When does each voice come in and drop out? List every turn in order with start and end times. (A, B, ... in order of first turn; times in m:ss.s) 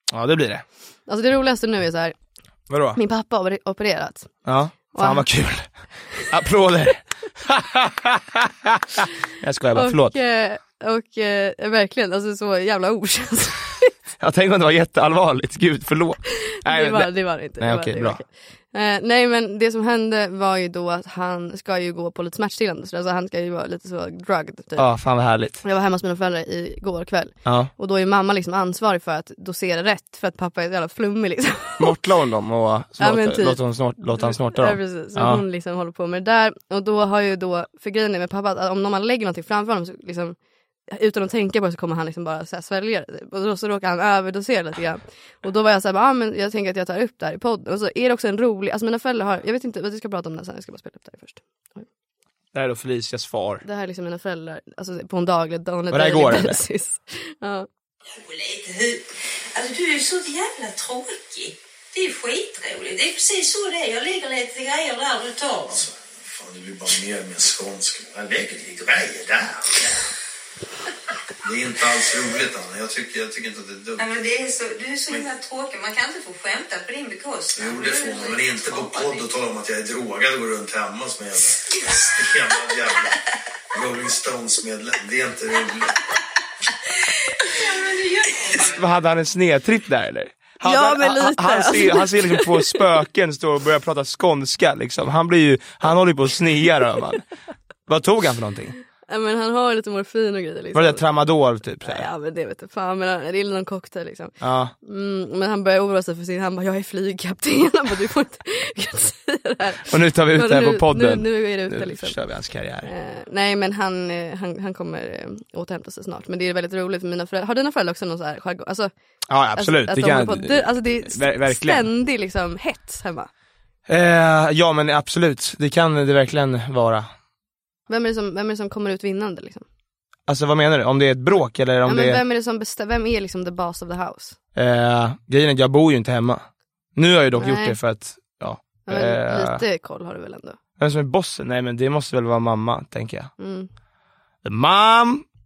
0:00.1-0:00.6 A
0:01.1-0:02.2 B
0:02.7-0:03.0 A
0:03.0-0:04.3 B
0:04.4-0:10.2 A
0:05.0-0:05.3 B
0:09.8-0:13.9 B
0:14.2-0:18.2 A
0:16.5-0:24.9 B
0:24.8-0:25.6 A
0:25.6-0:32.0 B
0:27.4-0:27.7 A
0:31.8-0:35.4 A
0:33.0-0:33.6 B
0:34.2-0:40.4 B
0:40.9-0:51.8 B
0:52.5-0:53.6 A
0:53.6-0:57.7 B
0:55.9-0:56.6 A
0:58.1-1:05.8 C
1:05.7-1:10.0 D
1:11.4-1:14.1 D
1:14.0-1:19.3 C
1:17.6-1:23.2 D
1:23.7-1:26.0 D
1:27.6-1:28.6 C
1:28.7-1:37.3 A
1:30.6-1:32.8 B
1:37.9-1:38.8 A
1:39.1-1:41.0 B
1:40.7-1:42.1 A
1:41.8-1:52.2 B
1:44.4-1:44.7 A
1:49.9-1:52.9 A
1:52.8-1:58.9 B
1:59.3-2:01.9 A
1:59.6-2:03.3 B
2:03.9-2:07.1 A
2:07.9-2:09.6 B
2:10.3-2:12.2 A
2:11.8-2:14.4 B
2:14.6-2:16.4 A
2:17.0-2:19.6 A
2:17.4-2:17.8 B
2:18.9-2:20.6 B
2:20.8-2:23.3 A
2:23.4-2:23.7 B
2:24.4-2:25.2 A